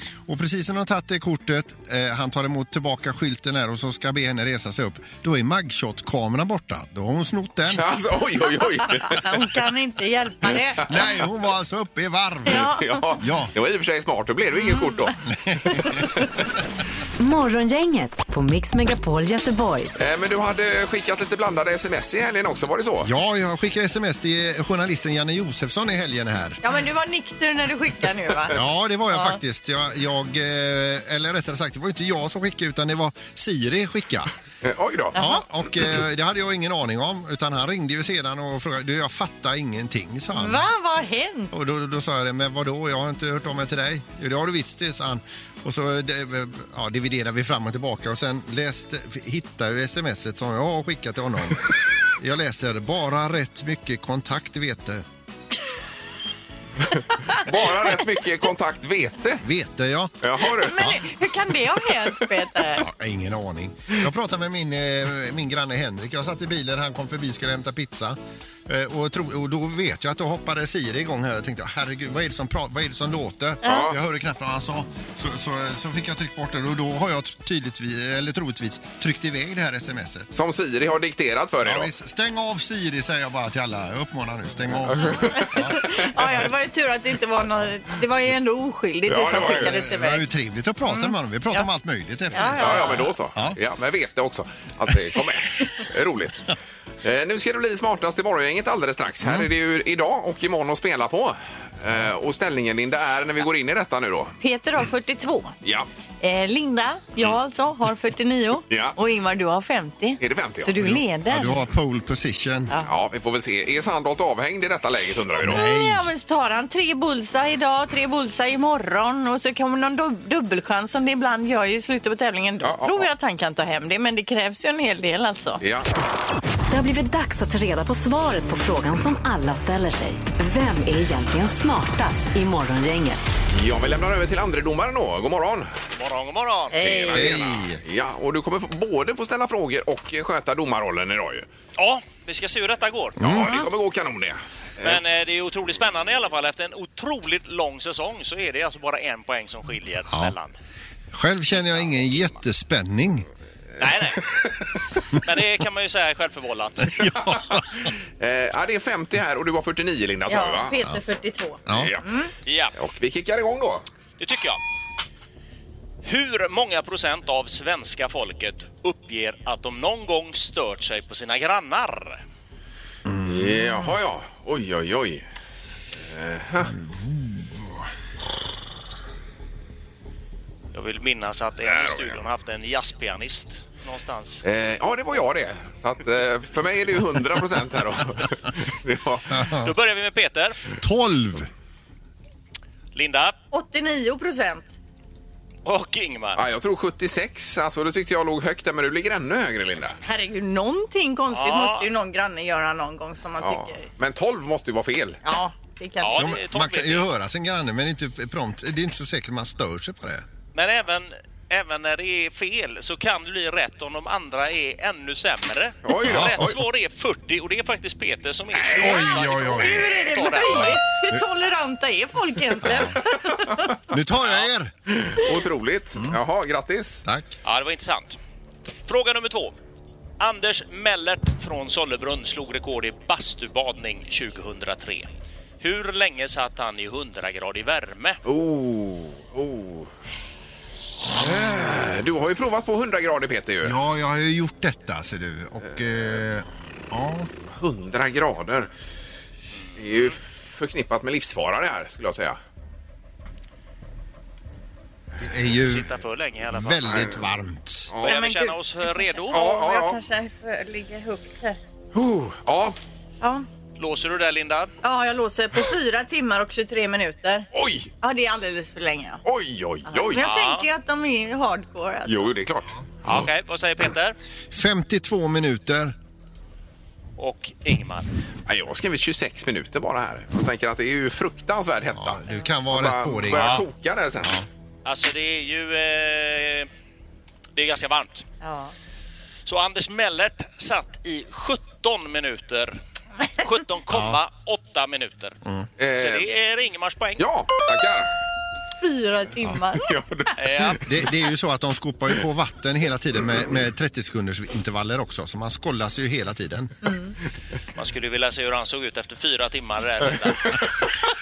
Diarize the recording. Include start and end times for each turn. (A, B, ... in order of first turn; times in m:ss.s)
0:00.3-0:07.8 A
0:07.7-0:09.4 B
0:09.1-0:10.9 C
0:10.9-0:13.5 A
0:12.5-0:12.8 C
0:12.5-0:15.2 B
0:15.3-0:16.0 A
0:17.2-0:19.9 D
0:20.0-0:23.1 B
0:23.0-0:26.6 A
0:26.6-0:28.6 C
0:28.5-0:34.3 A
0:34.6-0:35.2 B
0:35.1-0:40.7 A
0:35.2-0:35.4 C
0:40.4-0:41.5 C
0:41.5-0:51.6 A
0:52.2-0:55.0 A
0:57.3-0:59.4 B
0:59.4-1:00.1 A
1:00.2-1:00.8 B
1:00.6-1:02.8 C
1:00.7-1:01.0 A
1:02.8-1:20.3 A
1:13.6-1:14.0 B
1:20.3-1:21.9 B
1:21.6-1:25.8 A
1:24.9-1:26.1 B
1:25.3-1:30.2 C
1:29.1-1:29.7 B
1:29.3-1:33.6 A
1:30.9-1:31.6 C
1:32.3-1:33.0 C
1:32.6-1:44.4 B
1:44.4-1:45.5 C
1:46.2-1:51.5 C
1:48.7-1:48.9 B
1:50.2-1:50.8 B
1:50.8-1:52.7 A
1:52.8-1:55.6 B
1:55.4-1:56.1 A
1:55.4-2:05.6 C
2:02.6-2:03.1 B
2:05.6-2:05.9 B
2:06.7-2:13.3 D
2:13.5-2:15.7 B
2:16.0-2:16.8 E
2:16.7-2:17.2 C
2:16.8-2:21.5 B
2:17.1-2:17.8 A
2:21.8-2:23.2 E
2:23.2-2:23.6 A
2:23.2-2:25.0 B
2:24.8-2:30.6 E
2:30.1-2:30.3 A
2:31.1-2:33.2 A
2:33.8-2:34.3 E
2:35.2-2:37.1 E
2:36.8-2:37.6 A
2:37.3-2:40.7 B
2:40.3-2:42.3 C
2:41.6-2:41.9 A
2:41.7-2:42.0 B
2:42.4-2:42.8 E
2:42.8-2:43.8 B
2:44.2-2:44.6 E
2:46.0-2:52.2 E
2:53.0-2:53.9 A
2:53.2-2:55.2 B
2:56.1-2:56.8 B
2:56.7-2:57.8 A
3:00.7-3:04.4 E
3:01.6-3:02.2 B
3:04.4-3:09.4 B
3:09.3-3:09.7 A
3:09.6-3:10.6 E
3:10.8-3:11.5 A
3:12.9-3:13.4 E
3:13.5-3:14.7 C
3:15.6-3:16.4 E
3:16.4-3:20.0 B
3:20.0-3:23.9 C
3:21.3-3:21.9 E
3:23.4-3:25.2 B
3:25.2-3:26.2 C
3:26.0-3:27.0 E
3:26.2-3:30.2 A
3:30.5-3:40.8 E
3:35.8-3:36.5 B
3:36.0-3:36.5 A
3:38.5-3:39.2 B
3:38.8-3:40.0 A
3:39.5-3:43.6 C
3:42.6-3:43.0 A
3:43.9-3:44.7 A
3:44.9-3:47.0 B
3:47.0-3:47.3 A
3:47.4-3:48.2 E
3:48.9-3:49.5 E
3:50.2-3:55.1 E
3:55.6-3:58.2 E
3:58.2-3:59.9 B
4:01.2-4:03.8 B
4:03.6-4:07.3 A
4:07.5-4:08.7 B
4:09.8-4:12.4 B
4:15.2-4:15.9 A
4:15.5-4:17.1 E
4:16.5-4:17.9 A
4:16.9-4:17.2 B
4:17.9-4:18.1 B
4:18.0-4:19.4 E
4:18.0-4:21.6 C
4:19.3-4:20.0 B
4:21.9-4:22.8 B
4:23.2-4:23.4 C
4:23.8-4:24.7 E
4:24.8-4:27.5 C
4:27.5-4:27.9 B
4:28.0-4:29.2 C
4:29.2-4:30.2 B
4:29.9-4:32.3 C
4:30.2-4:30.6 E
4:32.1-4:33.2 B
4:33.0-4:34.2 E
4:34.5-4:35.9 A
4:37.2-4:38.1 E
4:38.5-4:44.3 B
4:41.9-4:43.6 A
4:44.8-4:46.7 E
4:47.5-4:48.3 E
4:48.4-4:48.7 C
4:49.4-4:52.8 E
4:53.4-4:55.4 E
4:53.9-4:54.2 A
4:55.8-4:56.3 B
4:55.9-4:57.2 E
4:57.2-4:58.1 B
4:58.8-4:59.8 C
4:59.8-5:00.8 B
5:00.4-5:00.8 E
5:00.9-5:06.7 A
5:06.8-5:07.1 C
5:07.8-5:10.7 E